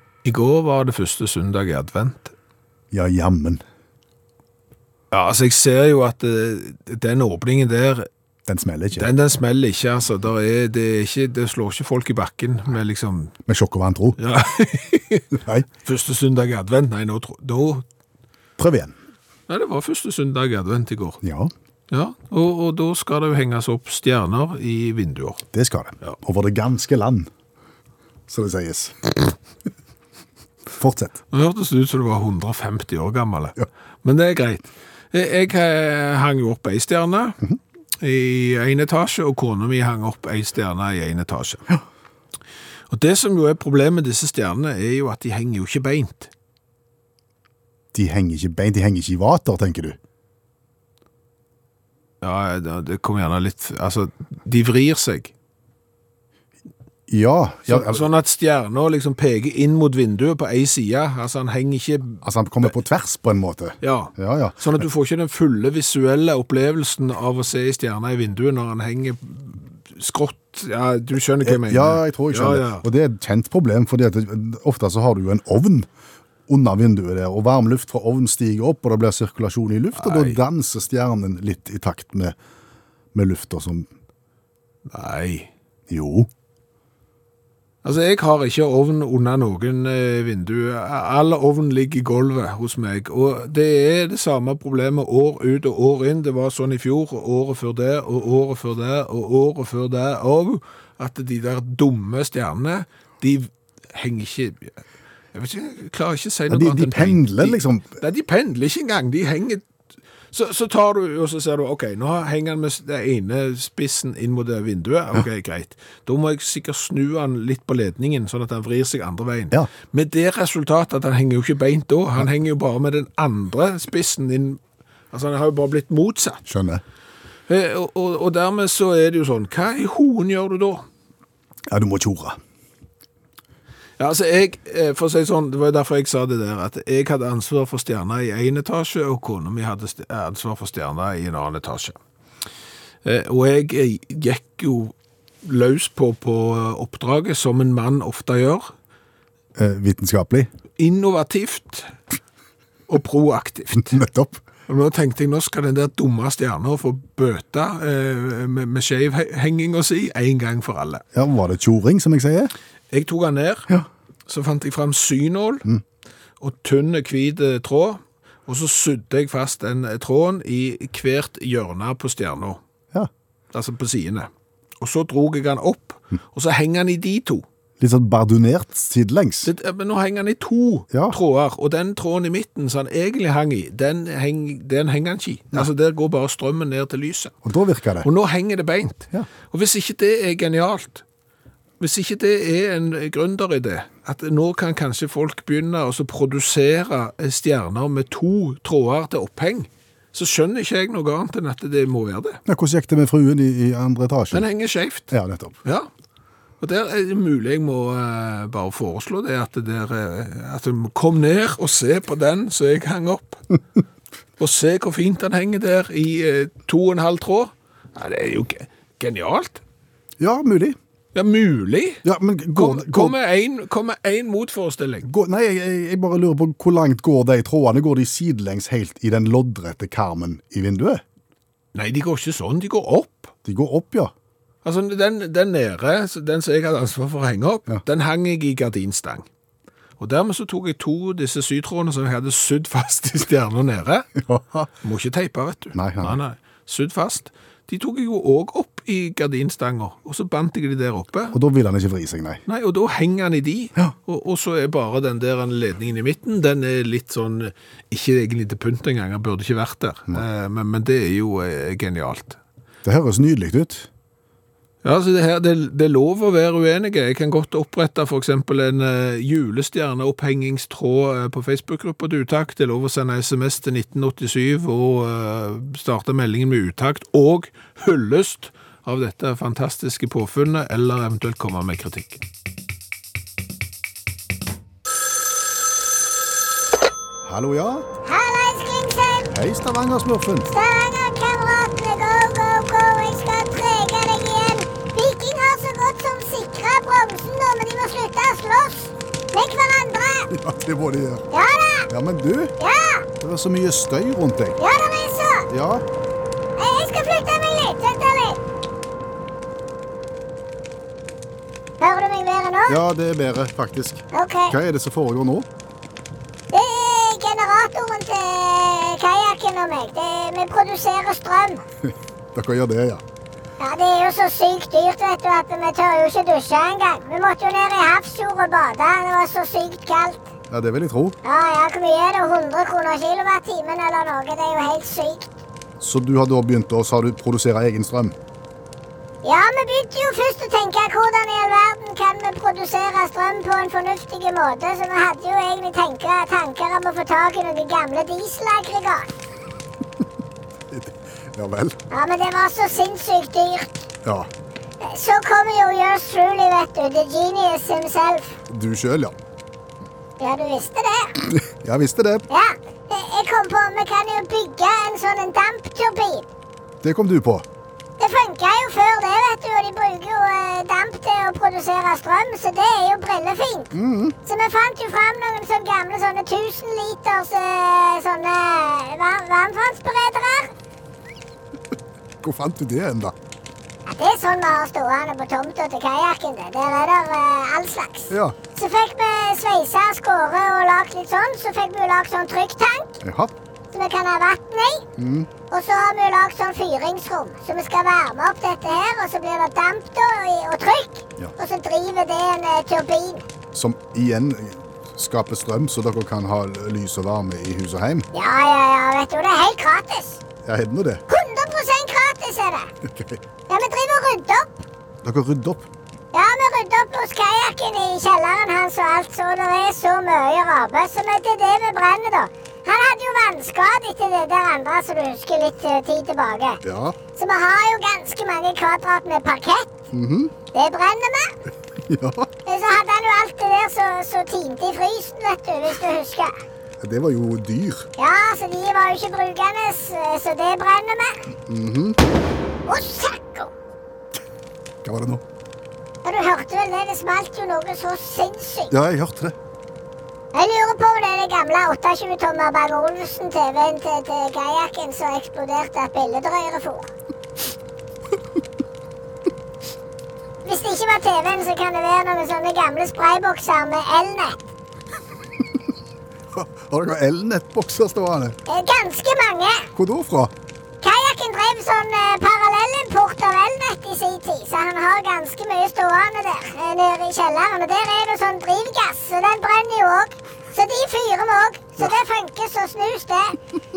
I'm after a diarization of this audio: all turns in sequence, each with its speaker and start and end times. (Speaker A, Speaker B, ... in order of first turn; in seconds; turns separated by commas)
Speaker A: 0.2-2.3, Speaker B: 2.9-3.6, Speaker A: 5.1-8.1, Speaker B: 8.5-9.1, Speaker A: 8.9-13.3, Speaker B: 13.5-14.2, Speaker A: 14.2-17.8, Speaker B: 15.4-15.7, Speaker B: 18.6-18.9, Speaker A: 19.5-21.2, Speaker B: 21.2-21.5, Speaker A: 21.9-25.4, Speaker B: 25.5-27.3, Speaker B: 28.3-29.3, Speaker B: 30.8-31.2, Speaker A: 31.3-37.4, Speaker A: 38.0-41.7, Speaker A: 42.9-46.3, Speaker B: 47.9-50.0, Speaker A: 52.2-55.3, Speaker B: 57.1-58.1, Speaker A: 57.7-62.2, Speaker B: 62.2-64.7, Speaker A: 63.8-72.8, Speaker B: 71.4-75.9, Speaker B: 76.5-82.3, Speaker A: 80.0-80.4, Speaker B: 83.1-83.9, Speaker A: 84.9-85.5, Speaker B: 85.9-86.3, Speaker A: 87.8-109.6, Speaker B: 106.5-108.0, Speaker A: 110.3-124.6, Speaker A: 125.1-126.5, Speaker B: 126.5-126.8, Speaker A: 127.5-130.8, Speaker B: 131.7-132.4, Speaker A: 134.0-142.0, Speaker A: 143.0-148.7, Speaker B: 149.6-150.5, Speaker A: 150.8-151.9, Speaker A: 152.9-154.0, Speaker B: 153.8-154.4, Speaker A: 154.7-161.0, Speaker B: 161.1-162.5, Speaker A: 162.9-163.7, Speaker A: 164.3-165.7, Speaker A: 166.4-172.6, Speaker A: 173.5-177.4, Speaker B: 177.8-179.5, Speaker A: 179.4-187.4, Speaker B: 187.4-188.1, Speaker A: 188.0-191.0, Speaker A: 191.8-202.4, Speaker B: 202.5-204.5, Speaker A: 204.3-205.1, Speaker B: 205.1-205.6, Speaker A: 206.6-213.5, Speaker A: 214.4-219.6, Speaker B: 220.2-220.8, Speaker A: 221.2-222.0, Speaker B: 222.1-223.2, Speaker A: 222.5-225.1, Speaker B: 225.1-231.0, Speaker A: 231.7-233.3, Speaker B: 233.4-234.1, Speaker A: 234.6-239.3, Speaker A: 240.0-244.2, Speaker B: 244.2-244.7, Speaker A: 244.8-251.4, Speaker B: 245.7-246.2, Speaker B: 251.3-252.4, Speaker A: 252.5-262.4, Speaker B: 262.8-263.9, Speaker A: 264.8-282.2, Speaker B: 287.2-287.9, Speaker C: 288.1-289.3, Speaker B: 289.3-290.5, Speaker C: 290.5-300.3, Speaker B: 300.3-301.3, Speaker C: 301.3-301.9, Speaker B: 301.9-302.5, Speaker C: 302.6-303.1, Speaker B: 303.2-304.6, Speaker C: 304.6-305.5, Speaker B: 305.5-305.9, Speaker C: 306.6-308.4, Speaker C: 311.8-312.8, Speaker B: 312.7-315.5, Speaker C: 314.1-314.6, Speaker C: 316.5-321.6, Speaker B: 322.3-323.0, Speaker C: 323.6-330.3, Speaker B: 330.5-331.2, Speaker C: 331.2-335.3, Speaker B: 335.8-338.2, Speaker C: 339.2-349.1, Speaker B: 350.7-351.8, Speaker C: 351.9-353.9, Speaker B: 354.1-354.3, Speaker C: 354.8-358.3, Speaker B: 358.5-359.1, Speaker C: 360.2-361.3, Speaker B: 361.3-362.2, Speaker C: 362.3-366.3, Speaker B: 366.8-367.5, Speaker C: 368.0-380.5, Speaker B: 373.7-374.1, Speaker B: 382.2-383.1, Speaker C: 383.9-393.0, Speaker B: 388.1-388.4, Speaker B: 393.0-393.3, Speaker C: 393.7-394.9, Speaker B: 395.0-395.3, Speaker C: 395.5-403.3, Speaker B: 403.5-408.1, Speaker C: 408.1-410.2, Speaker B: 410.4-411.0, Speaker C: 411.1-412.7, Speaker B: 412.8-413.2, Speaker C: 413.5-414.5, Speaker B: 415.0-415.7, Speaker C: 416.1-426.6, Speaker B: 426.6-427.0, Speaker C: 427.1-429.7, Speaker B: 429.9-430.3, Speaker C: 430.5-431.4, Speaker B: 431.9-432.3, Speaker C: 432.5-436.4, Speaker B: 436.8-437.9, Speaker C: 438.0-441.3, Speaker B: 441.5-442.0, Speaker C: 442.7-443.5, Speaker B: 444.8-445.2, Speaker C: 446.0-448.7, Speaker B: 448.7-449.4, Speaker C: 450.3-456.9, Speaker C: 460.4-464.4, Speaker B: 466.3-468.4, Speaker C: 468.5-469.7, Speaker B: 469.8-470.3, Speaker C: 470.8-483.4